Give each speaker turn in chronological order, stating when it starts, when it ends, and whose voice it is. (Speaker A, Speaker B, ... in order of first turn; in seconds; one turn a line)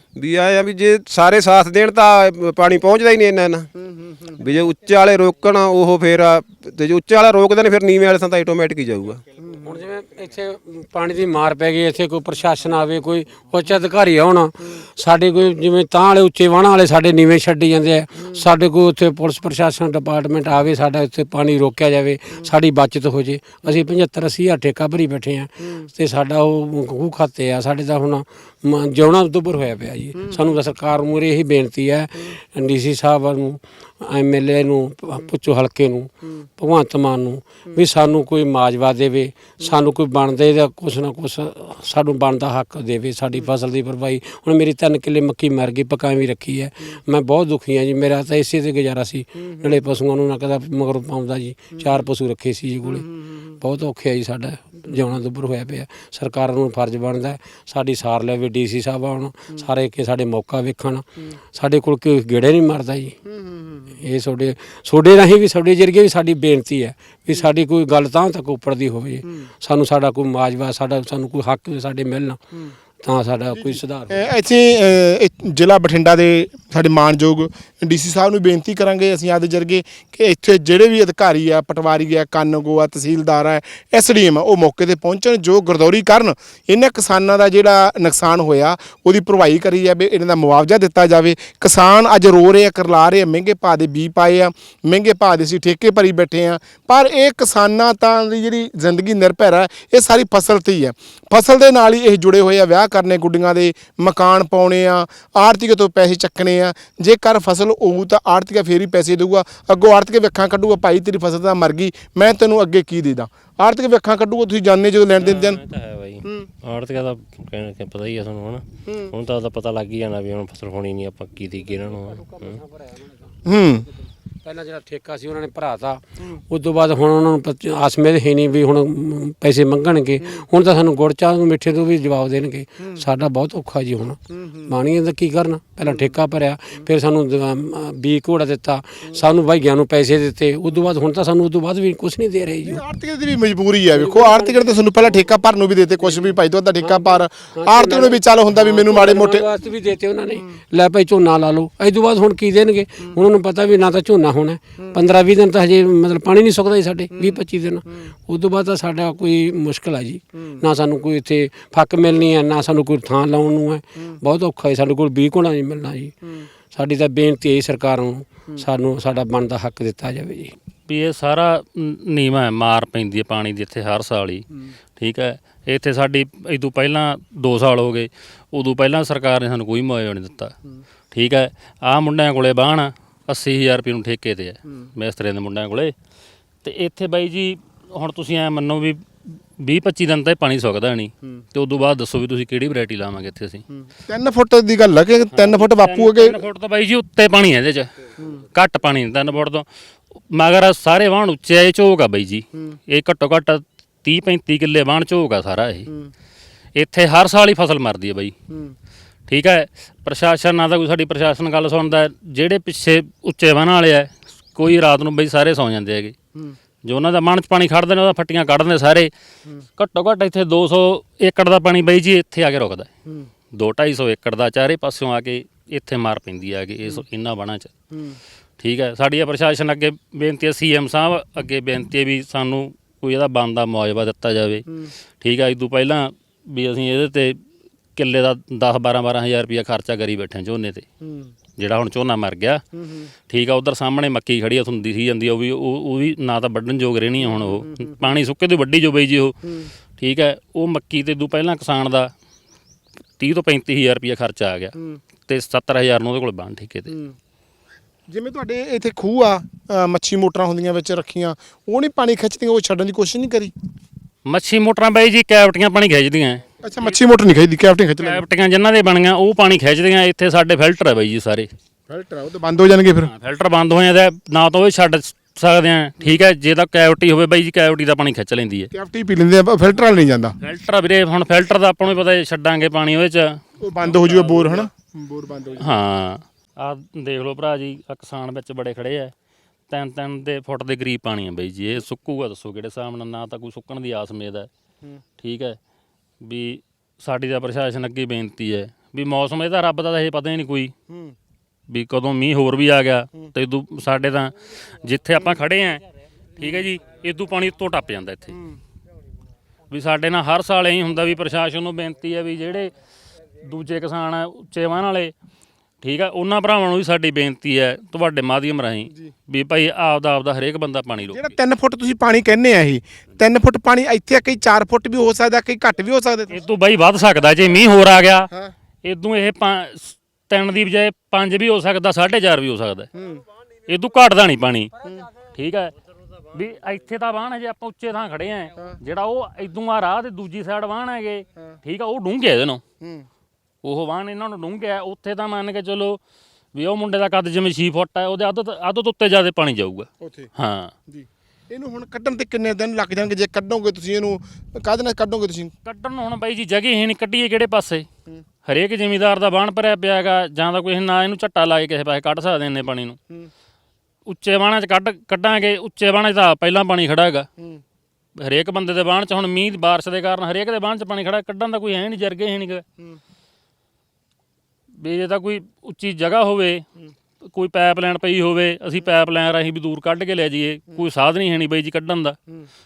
Speaker A: 0.1-3.7
Speaker B: 3.9-4.3
Speaker A: 4.3-9.2
Speaker C: 9.6-53.1
Speaker C: 53.6-63.1
Speaker B: 63.3-63.9
Speaker C: 64.0-72.4
Speaker C: 73.0-74.3
Speaker B: 73.5-115.6
Speaker D: 115.2-122.6
Speaker C: 122.6-123.1
Speaker B: 123.5-123.8
Speaker C: 124.4-142.8
Speaker B: 134.3-134.7
Speaker B: 142.6-149.4
Speaker C: 143.9-145.3
Speaker C: 146.0-166.1
Speaker C: 166.7-170.5
Speaker E: 170.9-174.4
Speaker E: 175.0-180.5
Speaker E: 181.1-185.9
Speaker E: 186.6-189.0
Speaker E: 189.6-193.6
Speaker B: 193.7-196.4
Speaker E: 195.3-197.9
Speaker E: 198.5-199.7
Speaker E: 200.3-205.9
Speaker E: 206.8-208.3
Speaker B: 208.5-208.7
Speaker E: 209.3-216.1
Speaker E: 216.8-219.1
Speaker E: 219.8-222.9
Speaker E: 223.5-227.7
Speaker B: 227.9-228.2
Speaker E: 228.6-234.7
Speaker E: 235.2-237.4
Speaker E: 237.9-240.8
Speaker B: 241.0-241.3
Speaker E: 241.6-242.6
Speaker B: 242.8-243.1
Speaker E: 243.3-249.3
Speaker B: 247.3-248.1
Speaker E: 250.0-252.1
Speaker E: 253.2-254.7
Speaker E: 255.2-256.9
Speaker B: 256.9-257.1
Speaker B: 258.1-263.5
Speaker E: 264.2-266.9
Speaker B: 266.6-268.2
Speaker E: 268.0-271.5
Speaker B: 271.9-273.1
Speaker E: 273.0-278.7
Speaker B: 278.7-280.3
Speaker E: 280.4-284.7
Speaker B: 283.6-285.8
Speaker E: 285.6-289.1
Speaker E: 289.7-294.5
Speaker E: 295.2-295.6
Speaker E: 296.2-300.7
Speaker B: 300.9-301.1
Speaker E: 301.7-305.8
Speaker E: 306.4-308.4
Speaker B: 308.3-308.6
Speaker E: 309.7-312.7
Speaker E: 313.4-315.1
Speaker E: 315.8-321.3
Speaker B: 321.1-326.3
Speaker E: 326.3-328.3
Speaker E: 328.8-332.9
Speaker B: 332.9-333.2
Speaker E: 333.7-334.7
Speaker E: 335.3-335.7
Speaker E: 336.3-342.6
Speaker B: 342.8-343.1
Speaker E: 343.6-346.0
Speaker E: 346.5-350.7
Speaker B: 350.0-350.3
Speaker B: 350.9-355.5
Speaker E: 355.6-357.9
Speaker E: 358.4-363.0
Speaker E: 364.1-367.3
Speaker E: 368.2-372.6
Speaker E: 374.8-376.6
Speaker E: 377.3-382.2